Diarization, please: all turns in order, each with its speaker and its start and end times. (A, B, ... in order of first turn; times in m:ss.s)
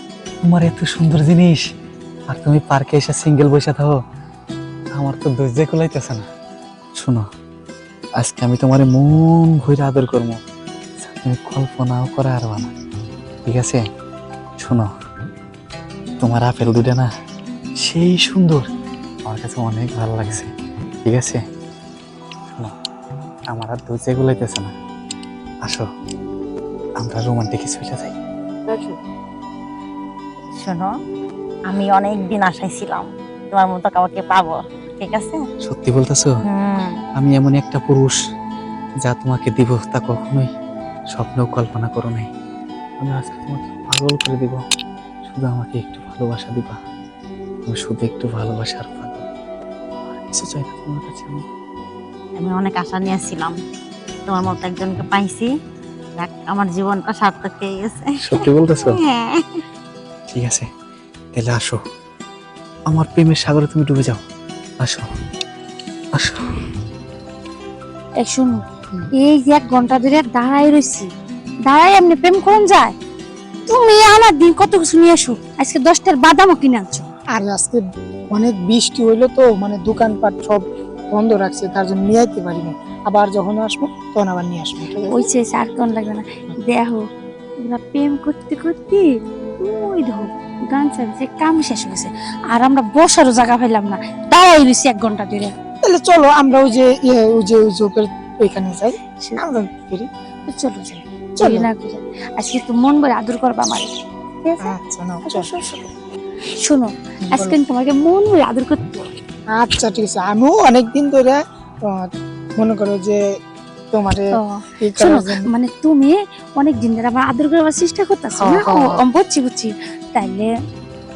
0:00.4-0:01.6 A
0:02.3-0:03.9 A
0:05.0-0:06.2 A
0:07.0-0:07.2 A
0:08.2-0:10.4 A
0:11.0-0:12.7 A
0:13.5-0:13.8 A
0:14.6-0:14.9 A
0:16.2-0:17.1 A
0:17.8-0:18.6 A
0:19.3-0:20.5 A
0:21.1-0:21.4 A
0:23.5-0:24.7 A
0:27.0-0:28.2 A
0:28.7-0:29.0 B
0:30.6-0:30.9 B
0:31.7-0:35.4 B
0:35.6-0:36.3 A
0:36.5-0:37.0 B
0:37.2-0:38.2 A
0:39.0-0:40.5 A
0:41.1-0:42.3 A
0:43.0-0:44.6 A
0:45.3-0:46.8 A
0:47.7-0:49.3 A
0:50.1-0:51.4 A
0:52.4-0:53.6 B
0:54.3-0:55.5 B
0:56.2-0:59.6 B
0:58.2-0:59.0 A
1:00.3-1:00.7 A
1:01.3-1:01.8 A
1:02.9-1:04.2 A
1:06.1-1:06.4 A
1:08.2-1:08.6 C
1:09.2-1:11.1 C
1:11.7-1:12.9 C
1:13.7-1:17.1 C
1:17.3-1:25.3 D
1:25.0-1:27.0 C
1:27.6-1:29.1 C
1:29.6-1:35.5 C
1:35.8-1:40.1 D
1:40.5-1:43.9 C
1:41.4-1:41.7 D
1:44.4-1:44.7 C
1:44.6-1:45.5 D
1:45.3-1:45.9 C
1:46.6-1:49.1 C
1:47.3-1:47.6 D
1:49.5-1:51.4 D
1:51.9-1:53.2 D
1:53.9-1:55.5 D
1:54.4-2:00.5 C
1:58.4-1:59.0 D